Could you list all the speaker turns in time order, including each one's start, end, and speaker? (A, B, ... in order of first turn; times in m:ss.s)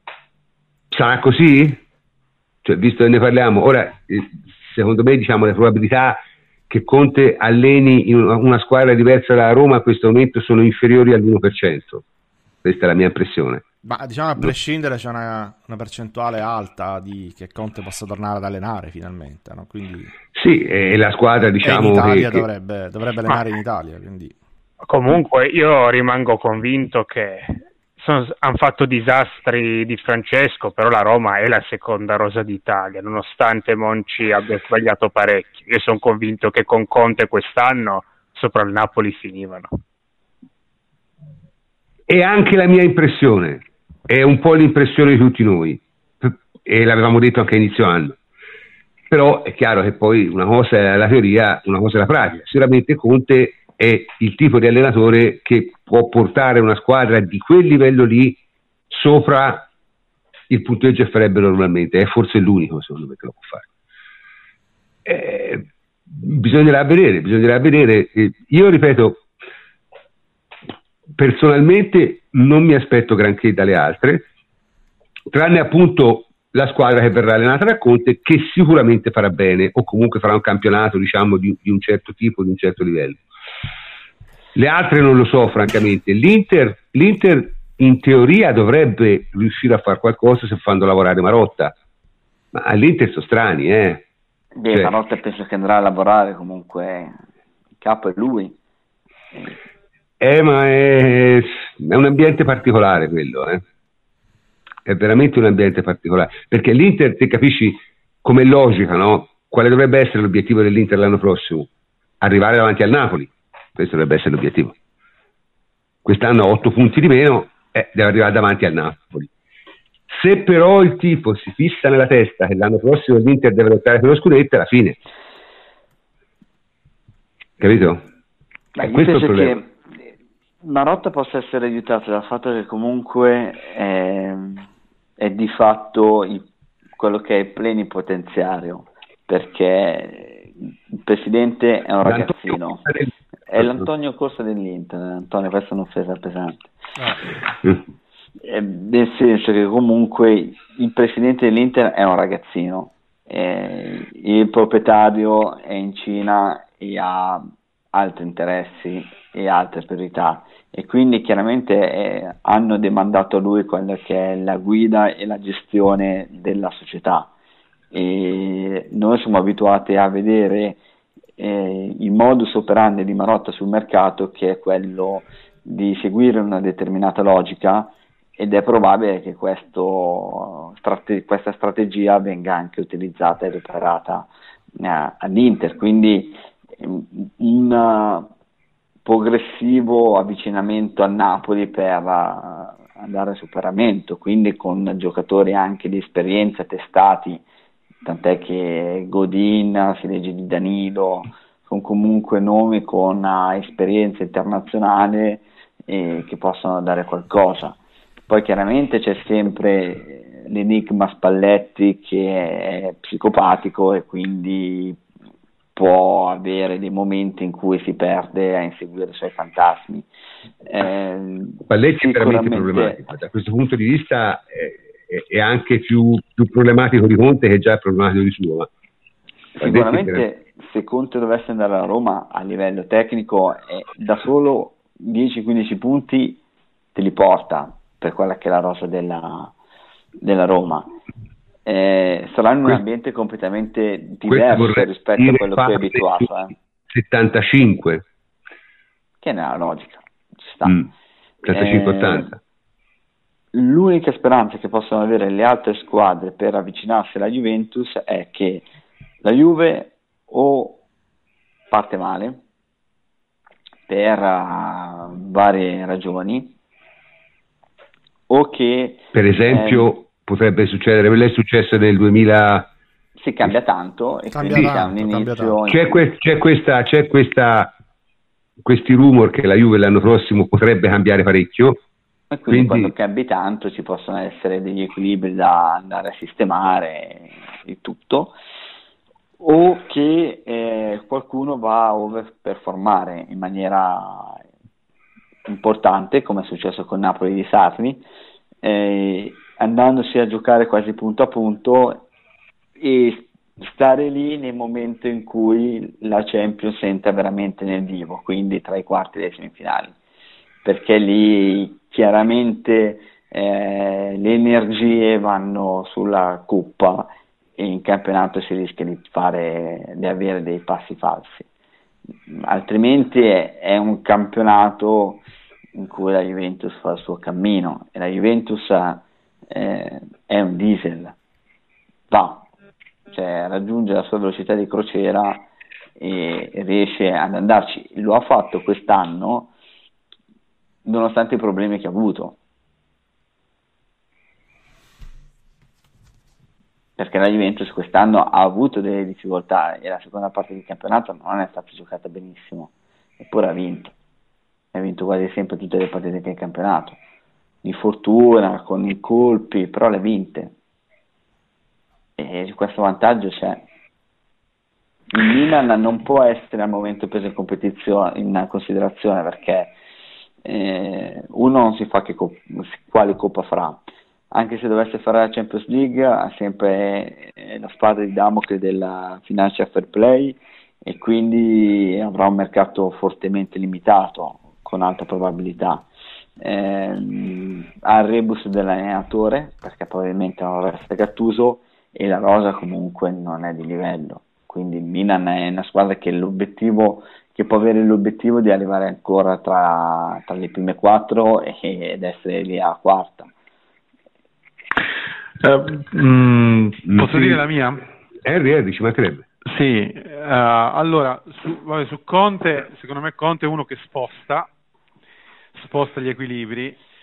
0:00.9-0:01.8 A
0:02.6-0:12.0 A
0:12.6-0:13.6 A
0:13.8-0:20.1 B
0:20.3-0:22.5 A
0:21.6-0:24.3 B
0:24.8-0:39.7 C
0:42.1-0:48.2 A
0:49.1-0:58.4 A
0:58.9-0:59.6 A
1:00.5-1:03.6 A
1:05.0-1:09.2 A
1:11.2-1:14.2 A
1:15.3-1:23.2 A
1:24.6-1:31.7 A
1:32.5-1:34.0 A
1:34.6-1:37.2 D
1:37.8-1:38.6 D
1:40.2-1:43.6 A
1:44.8-1:51.7 A
1:52.2-1:54.7 A
1:56.0-1:59.3 A
2:00.1-2:05.0 A
2:07.6-2:08.0 A
2:08.7-2:09.7 D
2:08.8-2:09.6 A
2:10.6-2:14.7 D
2:15.2-2:16.4 D
2:17.0-2:22.9 D
2:22.0-2:23.8 A
2:23.5-2:26.7 D
2:28.4-2:47.3 D
2:47.9-2:50.8 D
2:51.4-3:08.3 D
3:09.0-3:17.4 D
3:18.0-3:35.0 D
3:35.7-3:40.1 D
3:40.6-3:43.0 D
3:41.7-3:48.7 A
3:49.6-3:56.4 D
3:49.6-3:50.2 A
3:56.9-3:59.5 D
4:00.2-4:00.9 D
4:01.6-4:06.5 D
4:04.3-4:06.3 A
4:06.9-4:08.0 A
4:09.2-4:10.9 D
4:11.4-4:12.4 A
4:11.5-4:12.3 D
4:13.5-4:18.7 D
4:19.2-4:20.8 D
4:21.7-4:22.4 D
4:23.9-4:26.5 D
4:28.3-4:29.9 D
4:29.1-4:32.7 A
4:33.2-4:36.1 D
4:34.3-4:35.6 B
4:35.7-4:37.7 A
4:38.6-4:41.8 A
4:42.3-4:48.4 D
4:42.5-4:42.9 A
4:49.4-4:54.4 D
4:55.5-4:58.0 D
4:58.6-5:02.1 D
5:02.8-5:10.0 D
5:10.6-5:21.4 D
5:22.3-5:25.2 D
5:25.8-5:31.2 D
5:32.1-5:32.5 D
5:33.1-5:35.5 D
5:36.0-5:39.5 D
5:40.8-5:42.4 D
5:47.0-5:53.9 D
5:54.7-5:57.0 D
5:57.6-6:00.5 D
6:02.2-6:03.6 D
6:05.1-6:09.7 D
6:10.4-6:25.9 D
6:26.4-6:43.3 D
6:45.4-6:47.8 E
6:46.8-6:47.4 A
6:48.2-6:49.2 A
6:49.4-6:54.5 E
6:55.5-6:56.8 E